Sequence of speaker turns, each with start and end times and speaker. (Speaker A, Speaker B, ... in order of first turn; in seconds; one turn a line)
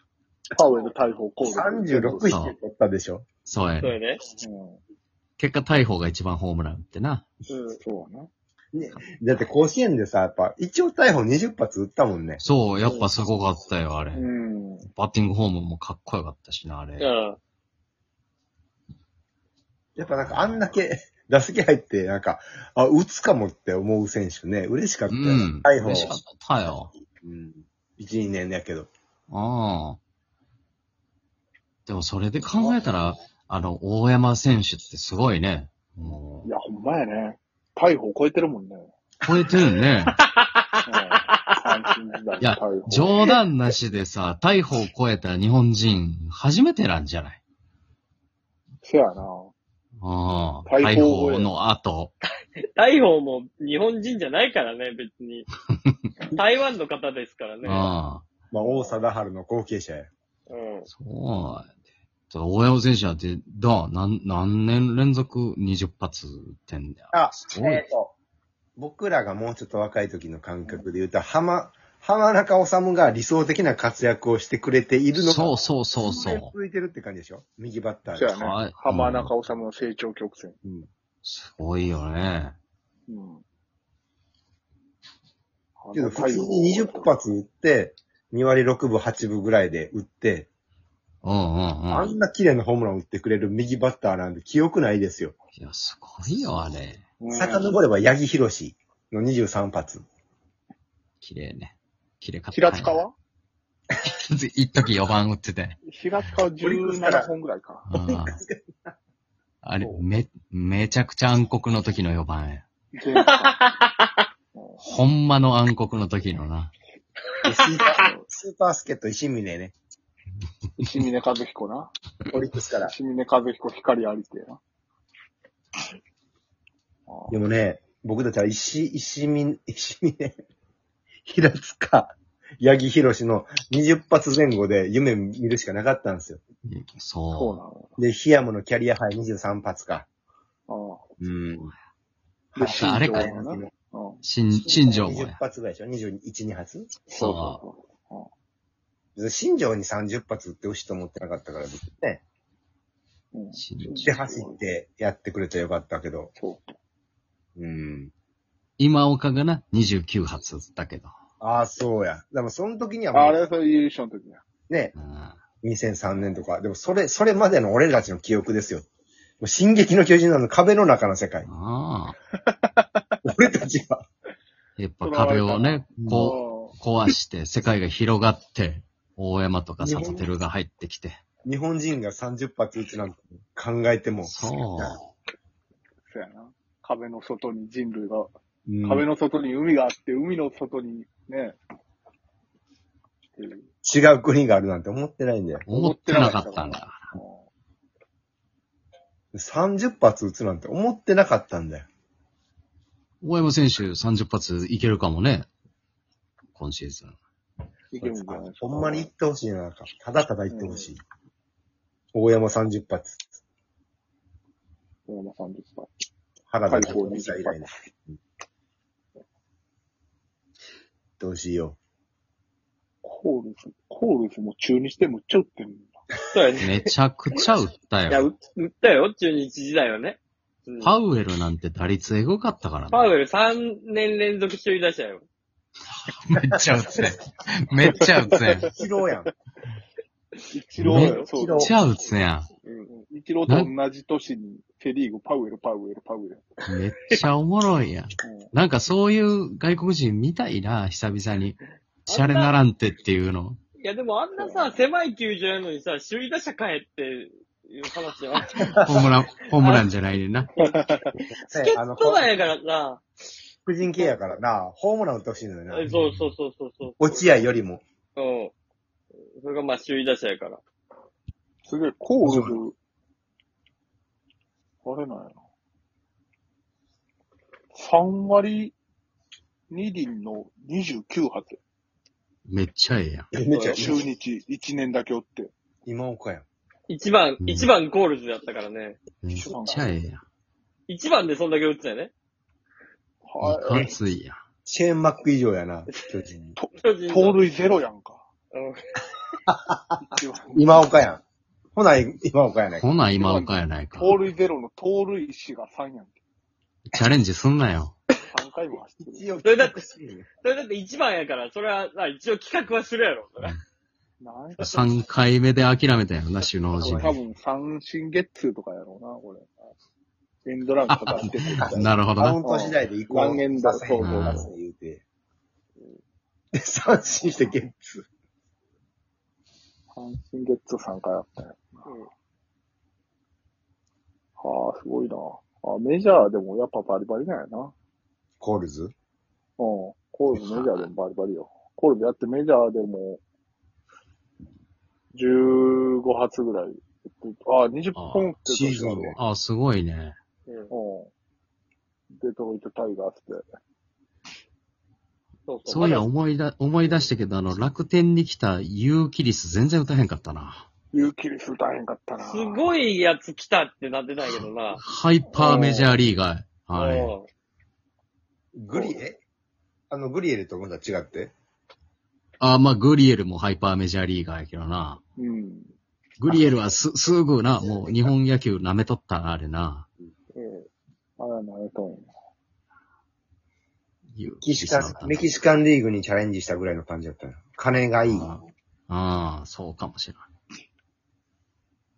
Speaker A: 0.5-2.3
Speaker B: 1.4-3.3
Speaker C: 2.2-2.6
Speaker C: 3.5-4.0
Speaker D: 3.8-4.2
Speaker A: 4.4-4.8
Speaker C: 5.4-7.3
Speaker A: 7.5-8.3
Speaker B: 8.7-12.4
Speaker C: 12.4-14.3
Speaker A: 14.1-14.9
Speaker C: 14.9-17.1
Speaker D: 17.0-17.4
Speaker B: 20.0-26.1
Speaker C: 20.2-20.6
Speaker C: 25.1-26.9
Speaker B: 27.2-28.9
Speaker C: 29.3-30.0
Speaker C: 31.9-36.5
Speaker A: 36.4-38.9
Speaker C: 39.2-40.2
Speaker D: 40.2-41.6
Speaker A: 40.9-43.2
Speaker C: 42.4-47.4
Speaker A: 48.8-49.5
Speaker C: 50.0-52.1
Speaker A: 50.7-51.5
Speaker D: 52.8-55.5
Speaker C: 55.8-56.1
Speaker D: 56.3-57.9
Speaker C: 57.6-58.3
Speaker B: 58.5-60.1
Speaker D: 60.5-60.9
Speaker C: 60.9-61.7
Speaker C: 62.3-67.8
Speaker B: 67.1-68.1
Speaker B: 68.8-78.3
Speaker C: 75.2-76.5
Speaker A: 78.1-80.6
Speaker C: 78.3-79.3
Speaker B: 80.6-80.9
Speaker C: 81.2-82.5
Speaker A: 83.1-83.4
Speaker A: 85.8-87.1
Speaker B: 85.9-90.5
Speaker C: 91.2-92.1
Speaker B: 91.9-95.3
Speaker C: 95.6-97.0
Speaker A: 97.2-97.8
Speaker B: 97.3-100.0
Speaker C: 101.2-103.0
Speaker A: 102.5-103.1
Speaker C: 104.1-105.8
Speaker A: 105.9-107.9
Speaker B: 106.6-107.3
Speaker C: 107.9-108.4
Speaker B: 108.1-108.9
Speaker C: 109.6-112.6
Speaker B: 109.8-110.0
Speaker A: 113.0-113.6
Speaker D: 113.2-114.2
Speaker A: 114.5-114.8
Speaker C: 114.8-116.7
Speaker B: 117.4-119.8
Speaker A: 117.8-118.3
Speaker A: 120.8-121.9
Speaker B: 122.3-122.9
Speaker A: 122.8-124.6
Speaker A: 127.1-127.5
Speaker B: 127.3-130.4
Speaker B: 131.3-136.4
Speaker C: 136.7-137.6
Speaker A: 137.3-138.0
Speaker B: 138.0-140.1
Speaker A: 140.7-141.1
Speaker B: 141.2-141.7
Speaker A: 142.6-144.2
Speaker C: 142.6-143.3
Speaker B: 142.6-143.7
Speaker C: 144.2-145.4
Speaker B: 144.7-147.0
Speaker A: 147.1-148.3
Speaker C: 147.2-147.6
Speaker B: 149.2-152.2
Speaker A: 153.3-154.6
Speaker C: 153.5-154.1
Speaker B: 154.0-156.3
Speaker A: 156.4-156.8
Speaker B: 157.6-158.1
Speaker C: 158.8-161.1
Speaker B: 161.4-163.4
Speaker A: 163.1-164.4
Speaker B: 164.7-164.9
Speaker C: 165.0-165.4
Speaker B: 165.6-168.8
Speaker B: 169.4-171.5
Speaker C: 171.5-172.2
Speaker A: 172.5-173.1
Speaker B: 173.2-174.0
Speaker C: 174.8-181.2
Speaker A: 175.0-176.8
Speaker B: 176.0-176.3
Speaker B: 179.8-180.3
Speaker B: 181.4-185.0
Speaker C: 184.3-185.0
Speaker A: 186.1-188.3
Speaker B: 188.7-189.1
Speaker A: 188.8-191.6
Speaker A: 193.4-193.7
Speaker B: 193.8-195.6
Speaker C: 195.6-197.1
Speaker A: 195.7-197.5
Speaker B: 199.3-201.9
Speaker C: 203.2-205.5
Speaker C: 206.5-207.2
Speaker A: 207.9-209.1
Speaker B: 208.0-211.0
Speaker A: 210.5-210.9
Speaker B: 212.1-213.2
Speaker A: 215.1-215.9
Speaker B: 216.5-218.2
Speaker A: 216.7-217.9
Speaker B: 221.2-221.8
Speaker A: 223.0-226.0
Speaker D: 226.3-226.8
Speaker C: 226.6-228.3
Speaker D: 228.1-230.9
Speaker C: 230.8-233.1
Speaker D: 232.9-235.3
Speaker C: 235.9-238.7
Speaker B: 238.7-239.3
Speaker A: 240.5-241.7
Speaker C: 240.8-242.5
Speaker B: 240.8-241.8
Speaker D: 240.9-241.2
Speaker A: 242.7-246.6
Speaker C: 243.5-243.7
Speaker C: 246.7-253.6
Speaker A: 248.2-248.5
Speaker D: 252.1-252.5
Speaker D: 253.8-258.6
Speaker A: 254.4-254.8
Speaker B: 258.6-259.0
Speaker C: 258.7-260.5
Speaker D: 259.5-259.8
Speaker A: 260.6-261.1
Speaker B: 261.5-262.3
Speaker D: 261.5-263.1
Speaker B: 263.7-265.9
Speaker D: 265.7-267.4
Speaker C: 265.9-266.3
Speaker B: 267.0-267.8
Speaker D: 268.2-268.5
Speaker D: 269.4-270.6
Speaker A: 271.6-272.8
Speaker B: 272.2-272.5
Speaker A: 274.8-275.4
Speaker A: 277.7-278.8
Speaker A: 279.7-281.6
Speaker C: 282.5-283.3
Speaker B: 283.3-284.0
Speaker D: 283.6-283.9
Speaker A: 283.7-285.5
Speaker B: 285.9-286.5
Speaker D: 286.9-289.0
Speaker C: 287.4-287.7
Speaker C: 289.2-290.2
Speaker A: 289.3-289.9
Speaker D: 290.9-292.1
Speaker A: 293.2-293.9
Speaker C: 293.4-294.4
Speaker B: 294.7-296.6
Speaker A: 296.6-298.3
Speaker D: 296.8-297.4
Speaker D: 298.5-299.0
Speaker B: 299.5-300.0
Speaker A: 300.1-300.9
Speaker B: 300.5-301.2
Speaker B: 301.8-302.9
Speaker C: 302.8-304.2
Speaker A: 303.1-306.2
Speaker C: 306.9-308.0
Speaker A: 308.3-309.3
Speaker B: 309.1-310.3
Speaker D: 309.4-309.8
Speaker D: 310.4-313.5
Speaker A: 314.2-314.9
Speaker C: 314.6-317.2
Speaker B: 316.8-317.1
Speaker A: 316.8-319.5
Speaker A: 320.4-321.9
Speaker C: 320.9-322.4
Speaker B: 321.5-325.0
Speaker A: 322.4-324.5
Speaker C: 324.0-324.5
Speaker B: 326.6-328.0
Speaker A: 329.9-332.0
Speaker A: 334.4-337.7
Speaker B: 338.4-338.9
Speaker A: 339.6-343.2
Speaker C: 340.4-340.9
Speaker A: 345.1-349.2
Speaker C: 348.0-348.4
Speaker B: 348.5-349.2
Speaker C: 349.2-350.2
Speaker A: 350.7-351.1
Speaker A: 352.2-353.4
Speaker D: 355.5-356.1
Speaker C: 355.7-360.7
Speaker A: 360.9-362.7
Speaker D: 362.2-364.8
Speaker C: 364.2-367.1
Speaker A: 365.3-366.1
Speaker D: 366.7-367.3
Speaker B: 368.6-369.2
Speaker B: 369.9-371.3
Speaker C: 372.4-375.0
Speaker A: 375.2-375.7
Speaker C: 376.2-379.9
Speaker A: 380.3-382.1
Speaker C: 384.1-385.3
Speaker B: 384.4-388.3
Speaker C: 388.1-390.3